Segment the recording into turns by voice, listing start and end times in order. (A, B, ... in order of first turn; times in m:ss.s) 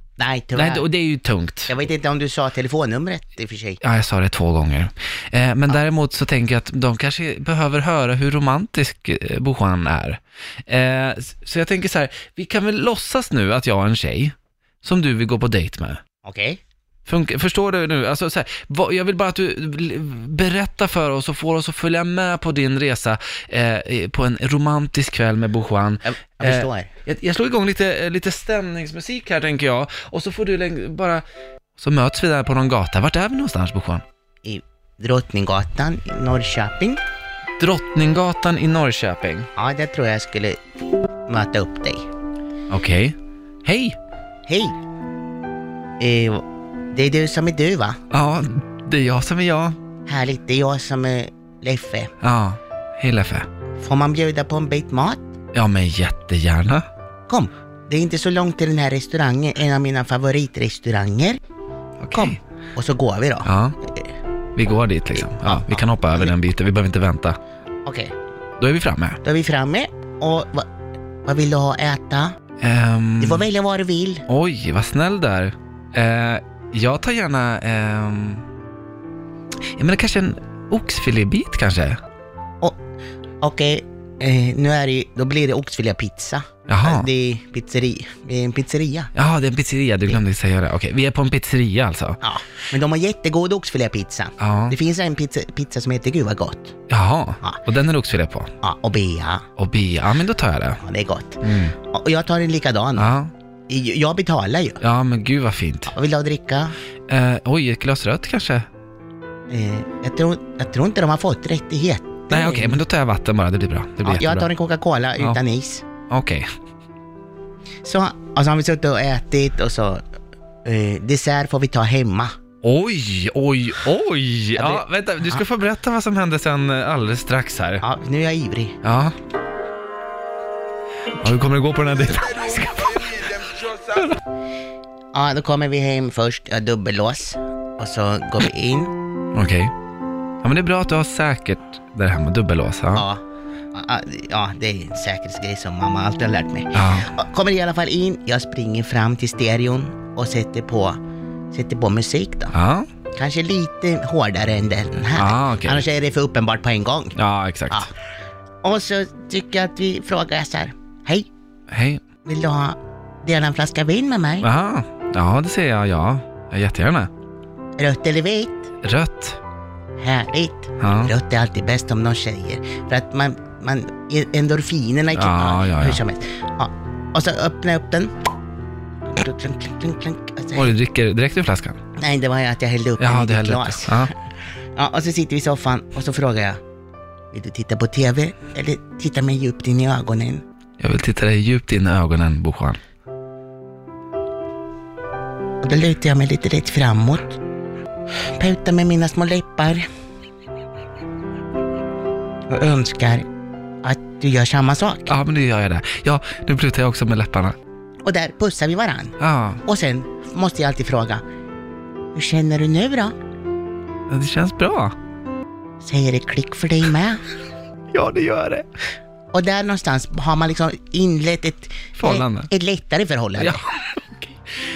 0:00.2-0:00.9 A
0:00.6-0:01.8 B
0:01.7-0:03.8 A
0:03.8-0:16.0 B
0:16.2-0:16.6 A
0:17.1-0:31.2 B
0:26.0-0:26.9 A
0:31.8-0:34.0 B
0:34.4-0:37.0 A
0:37.6-0:39.5 B
0:39.6-0:40.6 A
0:41.3-0:42.0 A
0:42.7-0:44.0 B
0:44.5-0:44.8 A
0:46.0-0:48.0 A
0:48.1-0:49.8 B
0:50.1-0:52.1 A
0:52.2-0:53.5 B
0:53.8-0:55.2 A
0:55.5-0:56.8 B
0:57.3-1:01.4 A
1:02.0-1:02.4 B
1:02.2-1:04.0 A
1:03.4-1:03.8 B
1:04.6-1:07.4 B
1:05.4-1:06.3 A
1:07.9-1:08.1 A
1:08.6-1:09.2 B
1:09.2-1:10.7 A
1:11.2-1:12.3 A
1:12.6-1:13.4 B
1:13.2-1:14.3 A
1:14.3-1:18.4 B
1:19.8-1:22.0 B
1:23.4-1:29.1 A
1:26.7-1:27.1 B
1:29.1-1:32.2 B
1:32.2-1:36.7 A
1:34.4-1:34.8 B
1:36.9-1:38.5 B
1:38.6-1:39.4 A
1:39.6-1:40.8 B
1:40.8-1:43.2 A
1:41.4-1:41.8 B
1:43.0-1:43.3 B
1:43.7-1:44.8 A
1:44.8-1:45.9 B
1:45.9-1:46.8 A
1:47.1-1:48.7 B
1:49.5-1:52.8 A
1:52.3-1:54.5 B
1:54.0-1:55.8 A
1:56.1-1:56.5 B
1:57.8-2:00.0 A
2:00.6-2:02.3 A
2:02.6-2:07.8 B
2:04.6-2:05.4 A
2:07.8-2:08.8 A
2:08.8-2:09.2 B
2:11.2-2:14.1 B
2:15.1-2:18.9 A
2:19.4-2:19.7 B
2:20.4-2:23.1 B
2:22.9-2:23.2 A
2:23.7-2:31.0 A
2:26.7-2:27.1 B
2:31.5-2:32.5 A
2:32.5-2:32.9 B
2:33.2-2:37.2 A
2:35.2-2:35.9 B
2:37.2-2:37.9 B
2:38.6-2:41.3 A
2:41.7-2:42.0 B
2:42.2-2:44.5 A
2:44.4-2:47.1 B
2:47.8-2:48.7 A
2:48.8-2:49.4 B
2:50.0-2:58.1 A
2:50.8-2:51.1 B
2:55.1-2:56.0 B
2:59.1-3:00.7 A
3:00.6-3:01.8 B
3:02.0-3:04.1 A
3:03.0-3:04.1 B
3:04.8-3:06.6 A
3:07.3-3:10.4 A
3:10.8-3:12.8 B
3:15.6-3:17.4 A
3:18.4-3:19.9 A
3:22.5-3:23.3 A
3:23.8-3:25.2 A
3:25.1-3:27.6 B
3:28.0-3:31.2 A
3:29.2-3:29.6 B
3:32.1-3:33.2 A
3:34.1-3:35.0 B
3:35.8-3:37.2 A
3:37.9-3:38.7 B
3:39.3-3:43.6 A
3:42.0-3:42.5 B
3:43.4-3:44.3 B